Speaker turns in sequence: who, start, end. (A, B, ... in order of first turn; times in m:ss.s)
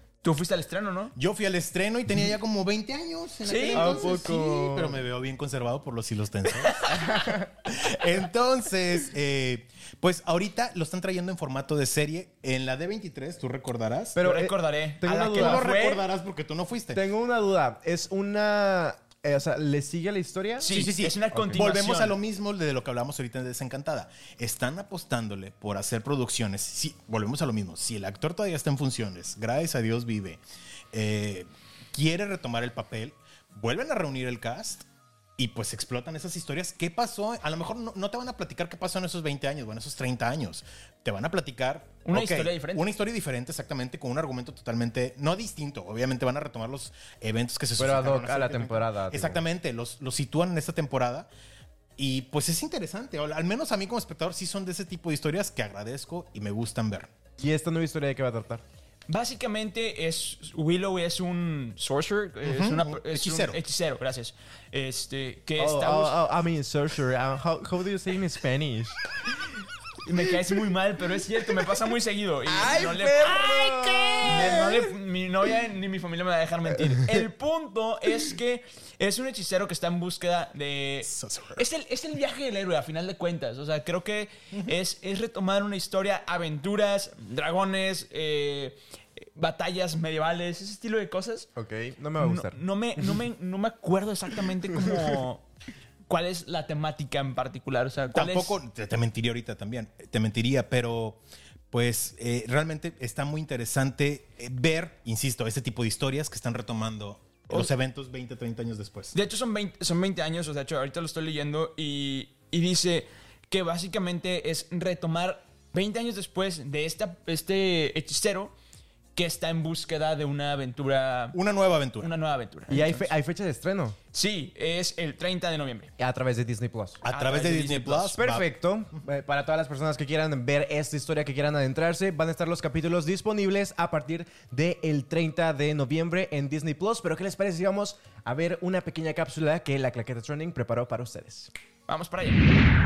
0:00.2-0:01.1 A
0:01.2-0:07.1 B
0:03.4-0:04.2 A
0:03.7-0:05.0 C
0:06.6-0:07.0 A
0:06.9-0:07.5 C
0:07.6-0:14.2 B
0:14.1-0:15.6 C
0:14.2-0:16.0 A
0:15.3-0:17.0 B
0:16.9-0:20.8 C
0:20.6-0:22.1 A
0:20.7-0:30.4 B
0:21.3-0:21.6 C
0:30.9-0:34.9 B
0:35.4-0:51.3 B
0:42.0-0:42.9 A
0:47.8-0:49.4 C
0:52.0-0:57.1 B
0:57.4-0:58.6 C
0:59.1-1:06.2 A
1:02.4-1:03.6 B
1:05.6-1:09.0 C
1:10.0-1:28.8 A
1:12.4-1:14.9 C
1:21.0-1:21.6 B
1:29.3-1:31.5 A
1:31.6-1:33.1 C
1:32.2-1:35.4 A
1:34.7-1:35.2 C
1:36.1-1:38.6 A
1:38.1-1:41.2 B
1:41.7-1:49.1 B
1:49.1-1:58.5 A
1:59.1-2:01.4 A
2:01.3-2:02.1 B
2:02.0-2:03.1 A
2:02.7-2:04.0 C
2:04.1-2:05.9 A
2:06.0-2:07.0 C
2:07.0-2:08.5 B
2:07.1-2:08.2 A
2:08.1-2:21.5 C
2:21.9-2:22.6 A